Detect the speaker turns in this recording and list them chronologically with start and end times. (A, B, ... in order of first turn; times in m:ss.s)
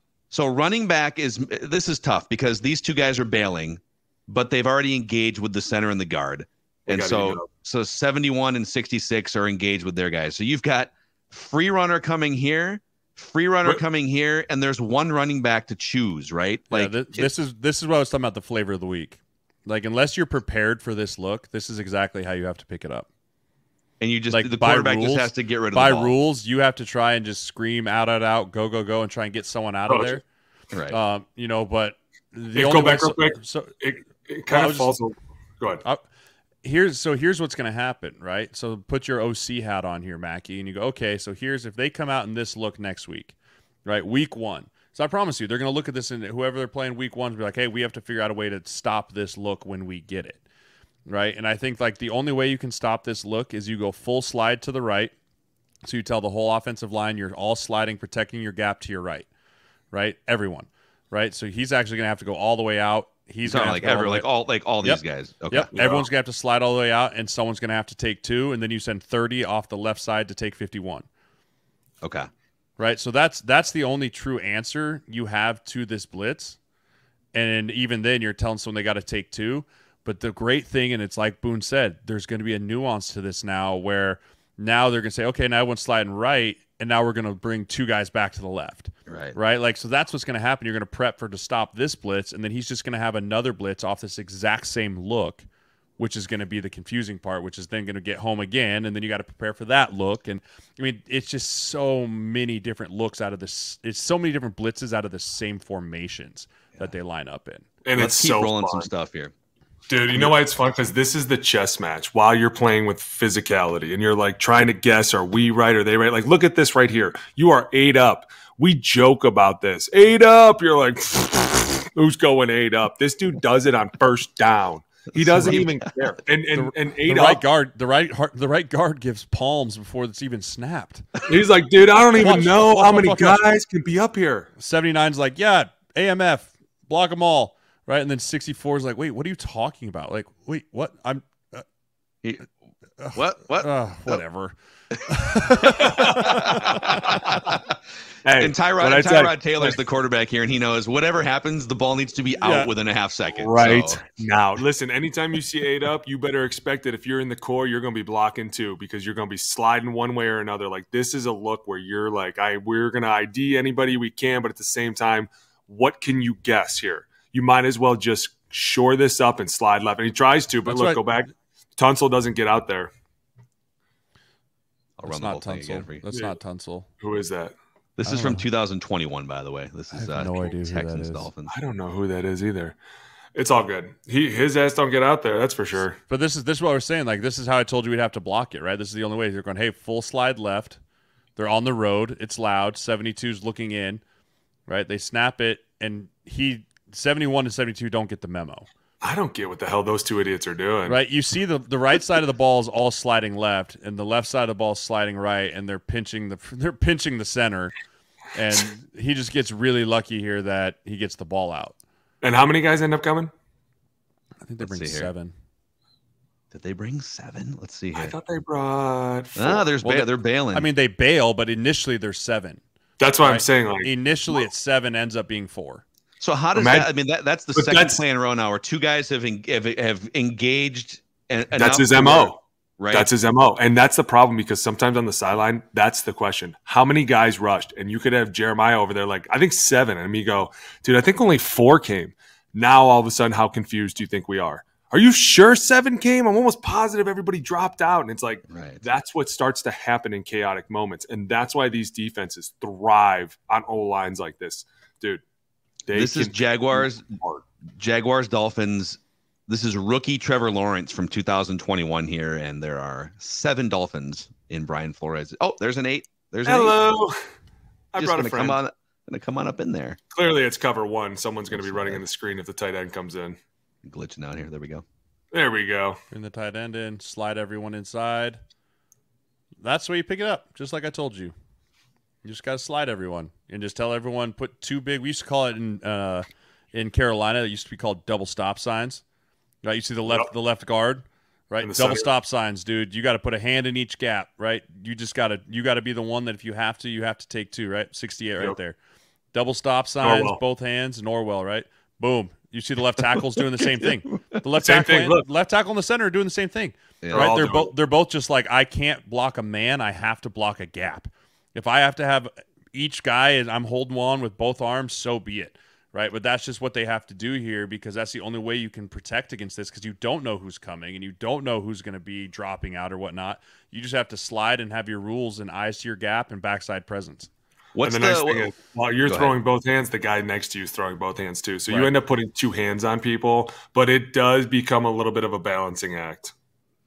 0:00.3-0:17.3 A
0:06.9-0:07.5 B
0:16.7-0:23.1 C
0:24.0-0:26.1 A
0:24.3-0:30.2 C
0:29.9-0:30.2 B
0:30.9-0:33.7 C
0:32.5-0:35.8 B
0:34.5-0:34.9 C
0:36.6-0:50.4 C
0:51.1-0:55.1 C
0:55.8-0:59.3 C
0:59.9-1:04.3 C
1:03.4-1:06.1 A
1:04.8-1:11.0 C
1:12.0-1:12.3 A
1:12.8-1:16.6 C
1:17.3-1:35.4 C
1:29.1-1:29.4 A
1:36.0-1:47.7 C
1:47.8-1:48.9 B
1:47.9-1:49.3 A
1:49.9-2:07.4 B
2:05.2-2:05.8 A
2:06.5-2:11.2 C
2:11.3-2:14.5 B
2:12.1-2:13.4 C
2:14.6-2:21.6 C
2:22.2-2:22.5 A
2:23.0-2:27.4 C
2:23.1-2:24.2 A
2:25.8-2:26.3 B
2:26.2-2:27.6 A
2:28.2-2:29.8 B
2:28.4-2:34.0 A
2:32.4-2:32.7 C
2:33.4-2:52.9 B
2:50.6-2:51.0 C
2:55.0-2:56.0 A
2:55.1-2:56.9 C
2:56.1-2:56.4 B
2:57.0-2:57.5 B
2:58.0-3:01.5 A
2:58.0-2:58.4 C
2:59.9-3:01.3 C
3:01.5-3:02.8 B
3:03.3-3:06.0 B
3:06.1-3:10.8 C
3:11.4-3:14.0 C
3:14.7-3:18.6 C
3:19.0-3:21.0 B
3:20.8-3:27.8 C
3:28.3-3:31.8 C
3:32.2-3:33.3 B
3:34.4-3:35.3 C
3:34.6-3:35.1 A
3:36.5-3:38.1 A
3:37.9-3:39.7 B
3:39.4-3:40.7 A
3:39.8-3:42.6 C
3:43.0-3:44.4 B
3:43.2-3:45.8 C
3:46.2-3:53.1 A
3:46.5-3:46.9 B
3:47.5-3:48.0 B
3:51.5-3:52.4 B
3:52.9-4:15.2 B
4:08.5-4:08.8 A
4:15.9-4:17.4 B
4:15.9-4:17.1 A
4:17.7-4:26.8 A
4:26.4-4:27.2 B
4:27.9-4:28.6 B
4:28.0-4:30.0 A
4:30.1-4:33.4 B
4:31.5-4:32.0 A
4:33.8-4:34.8 A
4:35.3-4:36.0 B
4:36.1-4:38.4 C
4:39.6-4:41.3 C
4:42.2-4:49.0 C
4:49.6-4:58.7 C
4:51.6-4:52.1 B
4:59.3-5:27.3 C
5:00.0-5:00.4 B
5:04.6-5:05.2 B
5:07.0-5:07.3 A
5:07.1-5:07.7 B
5:27.8-5:28.5 A
5:27.8-5:36.3 B
5:29.0-5:29.3 A